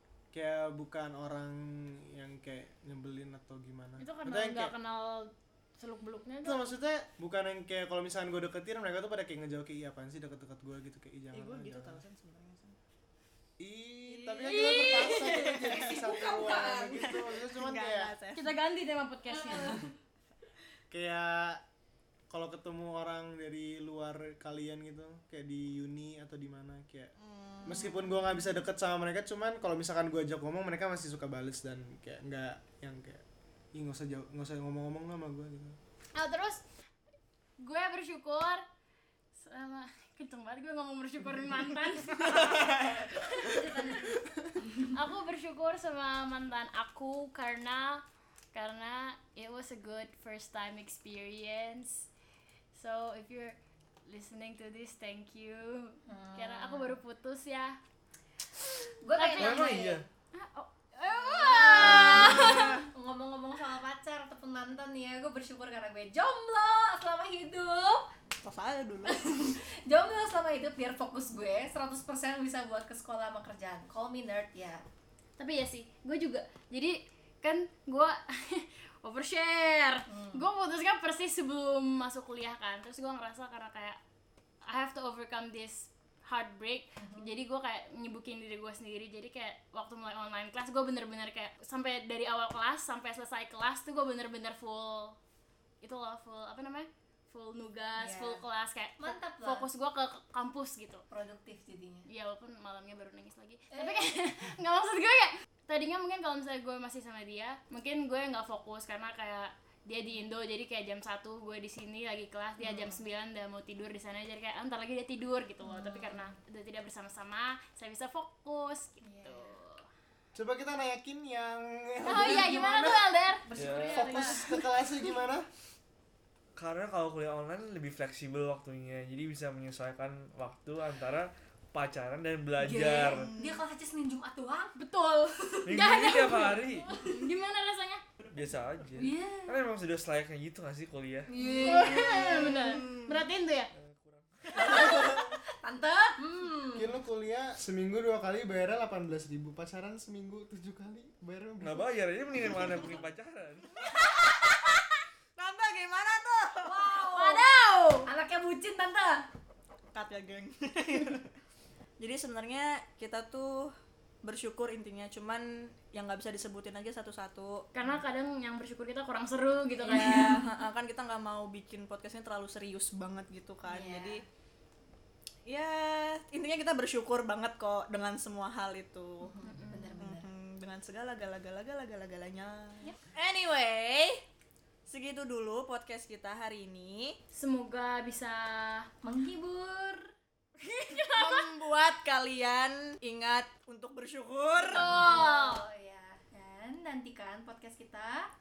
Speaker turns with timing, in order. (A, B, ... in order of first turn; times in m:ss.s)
0:00.3-0:04.7 A
0:04.0-0:06.6 B
0:06.4-0:12.0 A
0:11.3-0:12.8 C
0:13.6-0:18.1 A
0:14.1-0:18.6 C
0:14.4-0:15.6 B
0:16.2-0:16.8 D
0:18.3-0:19.9 B
0:19.4-0:19.9 D
0:20.9-0:21.6 A
0:22.3-0:27.1 A
0:27.2-0:28.0 C
0:27.6-0:35.8 A
0:36.2-0:36.6 B
0:37.6-0:38.6 B
0:39.4-0:44.2 B
0:44.7-0:48.0 B
0:48.5-0:52.1 B
0:52.7-0:57.8 B
0:56.1-0:57.0 D
0:59.0-1:00.1 D
0:59.2-0:59.8 B
0:59.4-1:00.1 E
1:00.3-1:02.8 B
1:01.2-1:02.9 C
1:01.6-1:08.1 D
1:08.4-1:09.4 C
1:09.1-1:14.8 D
1:15.4-1:24.0 B
1:20.1-1:20.4 D
1:24.6-1:35.2 B
1:27.0-1:27.3 D
1:35.8-1:41.0 B
1:38.0-1:38.4 D
1:39.0-1:39.7 D
1:41.1-1:42.1 D
1:42.1-1:59.8 B
1:43.7-1:44.1 D
1:52.6-1:53.0 D
1:55.6-1:56.4 D
1:59.0-1:59.6 D
2:00.4-2:03.1 A
2:02.0-2:04.4 B
2:03.5-2:04.6 D
2:03.5-2:04.1 E
2:03.9-2:05.5 A
2:06.6-2:13.4 E
2:12.6-2:14.8 D
2:12.8-2:13.6 C
2:14.8-2:18.0 B
2:15.4-2:15.8 D
2:15.7-2:17.1 E
2:18.3-2:21.3 E
2:19.0-2:19.6 D
2:21.3-2:22.8 D
2:21.4-2:23.2 C
2:21.6-2:23.7 B
2:23.7-2:24.9 E
2:24.5-2:26.9 D
2:24.6-2:24.9 C
2:25.0-2:25.3 A
2:26.7-2:32.0 A
2:31.6-2:33.9 E
2:34.0-2:34.8 C
2:35.4-2:37.2 C
2:36.6-2:37.5 D
2:37.1-2:38.1 B
2:38.0-2:39.3 D
2:39.9-2:41.3 C
2:42.0-2:47.7 C
2:47.7-2:50.4 B
2:49.8-2:50.5 D
2:49.9-2:54.2 C
2:53.6-2:54.2 D
2:55.5-2:59.4 C
2:59.2-3:00.3 D
2:59.4-3:00.0 B
3:00.0-3:04.2 C
3:04.9-3:07.2 C
3:07.3-3:08.9 B
3:09.0-3:10.1 D
3:10.6-3:14.9 C
3:10.9-3:11.5 B
3:14.6-3:18.3 D
3:14.7-3:15.6 B